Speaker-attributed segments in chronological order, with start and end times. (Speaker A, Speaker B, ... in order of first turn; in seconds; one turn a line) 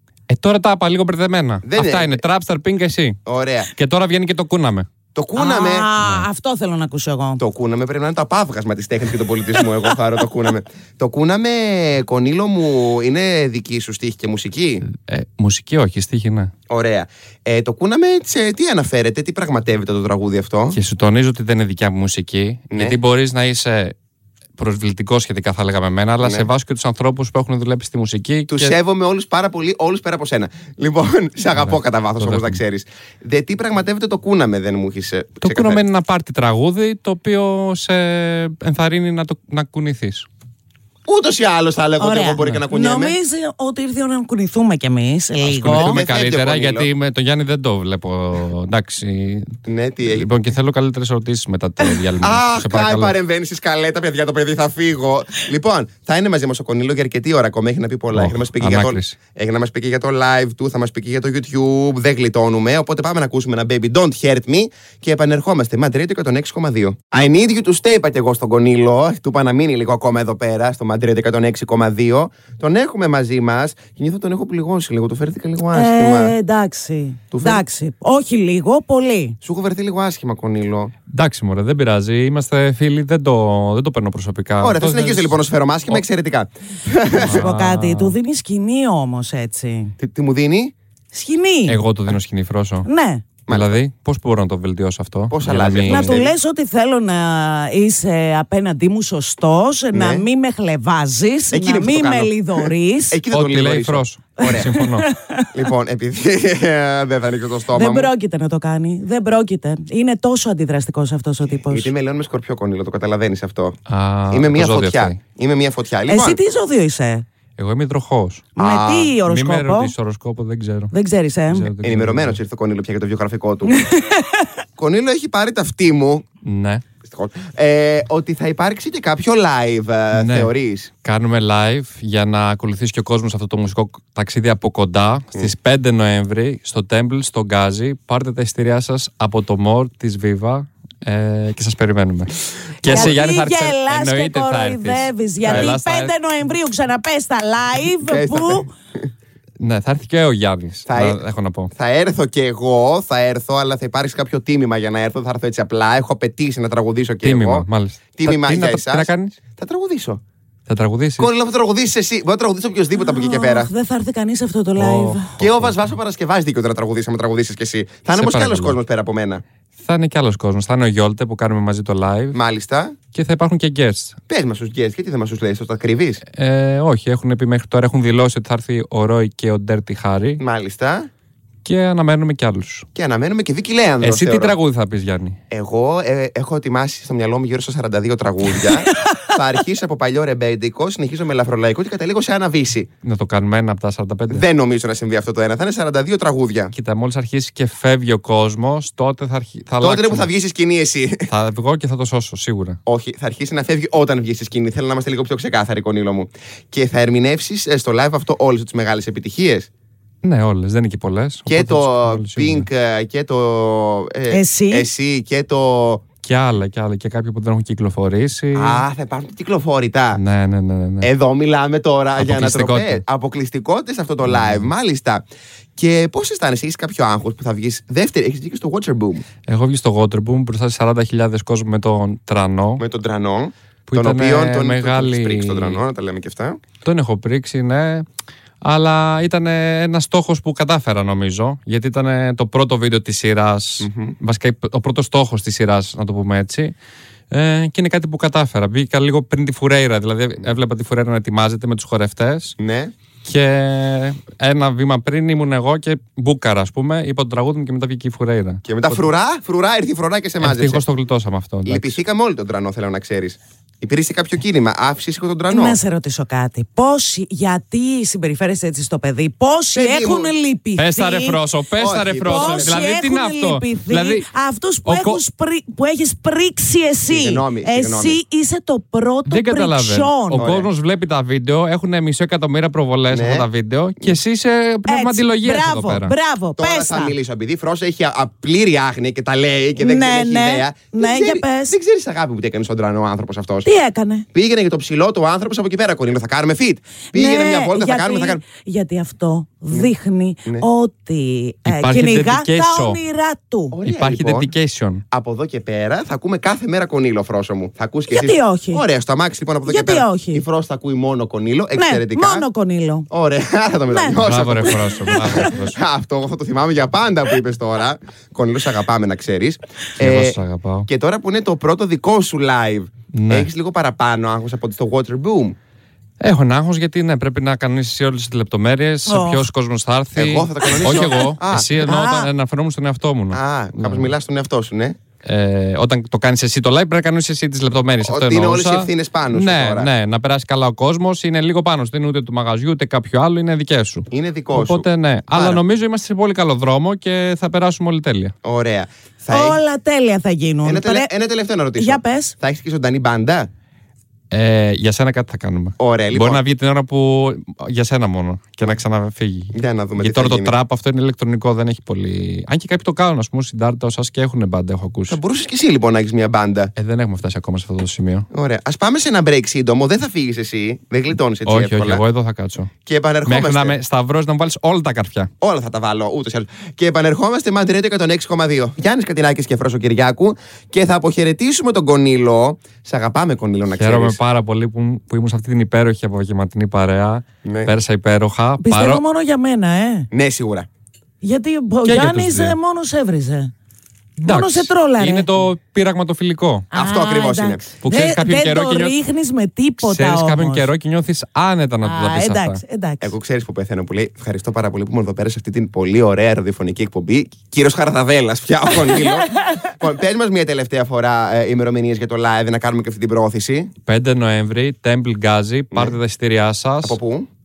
Speaker A: 0.3-3.2
Speaker B: 1.6-2.2
Speaker B: 3.2-3.7
Speaker A: 3.7-4.9
Speaker B: 5.1-5.9
Speaker C: 5.3-7.4
Speaker B: 7.4-14.8
Speaker A: 14.9-16.5
Speaker B: 16.7-20.8
Speaker A: 20.7-23.9
Speaker B: 22.7-23.0
Speaker A: 24.6-28.7
Speaker B: 26.2-26.5
Speaker B: 28.5-35.8
Speaker A: 31.6-32.6
Speaker A: 35.4-40.3
Speaker B: 41.1-43.1
Speaker C: 42.0-46.0
Speaker A: 45.4-49.5
Speaker B: 45.5-46.9
Speaker B: 49.6-50.3
Speaker A: 50.0-53.1
Speaker B: 52.2-76.3
Speaker A: 58.1-59.1
Speaker C: 75.7-79.4
Speaker B: 77.3-77.6
Speaker B: 79.4-80.9
Speaker A: 81.1-86.0
Speaker B: 84.6-87.4
Speaker A: 87.2-88.2
Speaker C: 87.2-89.9
Speaker B: 90.0-90.7
Speaker C: 91.1-91.8
Speaker A: 91.7-92.9
Speaker C: 92.8-93.2
Speaker B: 93.5-93.8
Speaker A: 93.5-96.2
Speaker B: 95.3-96.3
Speaker C: 95.9-103.2
Speaker B: 99.9-100.3
Speaker B: 101.5-104.7
Speaker A: 103.3-105.1
Speaker C: 104.4-105.5
Speaker B: 105.5-108.1
Speaker C: 107.7-111.9
Speaker B: 111.5-113.8
Speaker A: 113.9-115.2
Speaker B: 114.3-116.4
Speaker C: 116.1-117.2
Speaker A: 117.6-118.5
Speaker C: 118.5-119.9
Speaker B: 118.6-119.2
Speaker A: 119.2-120.9
Speaker C: 120.9-121.7
Speaker A: 121.5-122.4
Speaker B: 121.8-123.8
Speaker C: 123.7-124.5
Speaker B: 124.8-126.2
Speaker A: 126.4-126.8
Speaker B: 127.0-130.9
Speaker A: 130.1-130.5
Speaker A: 131.0-146.1
Speaker B: 142.8-143.2
Speaker C: 142.8-148.7
Speaker B: 145.4-145.7
Speaker B: 148.0-148.7
Speaker A: 149.6-151.7
Speaker B: 150.9-151.2
Speaker B: 151.7-160.2
Speaker A: 157.2-159.4
Speaker A: 160.7-161.3
Speaker B: 161.2-163.7
Speaker C: 162.9-165.3
Speaker A: 164.8-165.9
Speaker B: 165.4-169.4
Speaker A: 168.1-168.8
Speaker A: 169.8-172.4
Speaker B: 172.3-173.0
Speaker A: 173.1-174.2
Speaker B: 174.3-176.2
Speaker A: 176.3-180.4
Speaker B: 180.4-181.1
Speaker A: 181.6-182.8
Speaker B: 182.9-184.5
Speaker A: 184.0-185.4
Speaker B: 185.5-192.9
Speaker A: 193.0-194.4
Speaker B: 194.3-196.7
Speaker A: 196.7-200.3
Speaker B: 199.8-201.3
Speaker A: 201.3-202.8
Speaker B: 202.8-209.7
Speaker A: 210.2-212.7
Speaker B: 211.4-216.0
Speaker C: 214.3-214.9
Speaker A: 216.2-218.8
Speaker B: 218.5-220.2
Speaker A: 220.1-221.1
Speaker B: 221.0-225.2
Speaker A: 222.2-223.0
Speaker A: 224.2-224.7
Speaker B: 225.8-229.2
Speaker A: 229.5-232.8
Speaker B: 232.8-236.6
Speaker A: 233.9-235.8
Speaker A: 236.8-238.1
Speaker A: 238.6-246.7
Speaker B: 243.8-244.2
Speaker A: 247.3-252.5
Speaker B: 252.6-252.9
Speaker A: 253.2-259.0
Speaker B: 258.6-260.8
Speaker A: 260.4-262.0
Speaker B: 261.6-265.8
Speaker C: 265.5-271.4
Speaker B: 269.7-270.3
Speaker A: 270.8-274.3
Speaker B: 271.8-272.8
Speaker C: 272.2-280.4
Speaker A: 274.8-275.2
Speaker B: 277.1-278.2
Speaker A: 279.3-286.1
Speaker B: 280.3-280.7
Speaker B: 283.1-283.5
Speaker C: 284.9-287.1
Speaker B: 286.6-293.7
Speaker C: 289.8-291.8
Speaker C: 293.6-294.2
Speaker B: 294.3-298.4
Speaker C: 297.1-303.8
Speaker A: 301.6-303.0
Speaker B: 303.7-304.5
Speaker A: 303.9-305.0
Speaker B: 305.1-312.5
Speaker C: 308.1-308.8
Speaker C: 309.6-310.4
Speaker C: 311.8-313.1
Speaker B: 313.1-325.6
Speaker C: 313.9-315.5
Speaker A: 314.2-315.8
Speaker A: 320.0-320.9
Speaker A: 323.1-323.5
Speaker A: 326.2-334.1
Speaker C: 329.1-329.5
Speaker B: 330.1-331.8
Speaker C: 330.6-332.3
Speaker B: 333.3-335.0
Speaker A: 335.2-348.3
Speaker B: 338.0-339.9
Speaker B: 344.1-345.6
Speaker B: 348.4-349.6
Speaker C: 349.3-351.1
Speaker B: 350.6-353.5
Speaker C: 351.8-352.4
Speaker A: 354.3-365.2
Speaker B: 355.8-356.4
Speaker B: 359.5-360.5
Speaker B: 365.1-366.7
Speaker A: 366.8-368.3
Speaker B: 368.3-372.0
Speaker A: 371.4-372.7
Speaker B: 372.9-373.8
Speaker A: 373.2-375.3
Speaker B: 375.4-384.2
Speaker A: 383.7-389.0
Speaker B: 387.4-387.7
Speaker C: 388.6-390.1
Speaker B: 390.1-390.7
Speaker C: 391.2-393.5
Speaker A: 391.8-392.6
Speaker A: 394.2-396.7
Speaker C: 394.2-395.4
Speaker B: 396.7-397.6
Speaker C: 396.7-400.7
Speaker A: 397.8-398.9
Speaker A: 399.8-402.6
Speaker C: 401.8-403.1
Speaker B: 403.0-413.7
Speaker C: 408.8-409.7
Speaker A: 413.9-417.0
Speaker B: 415.7-416.0
Speaker B: 416.8-417.3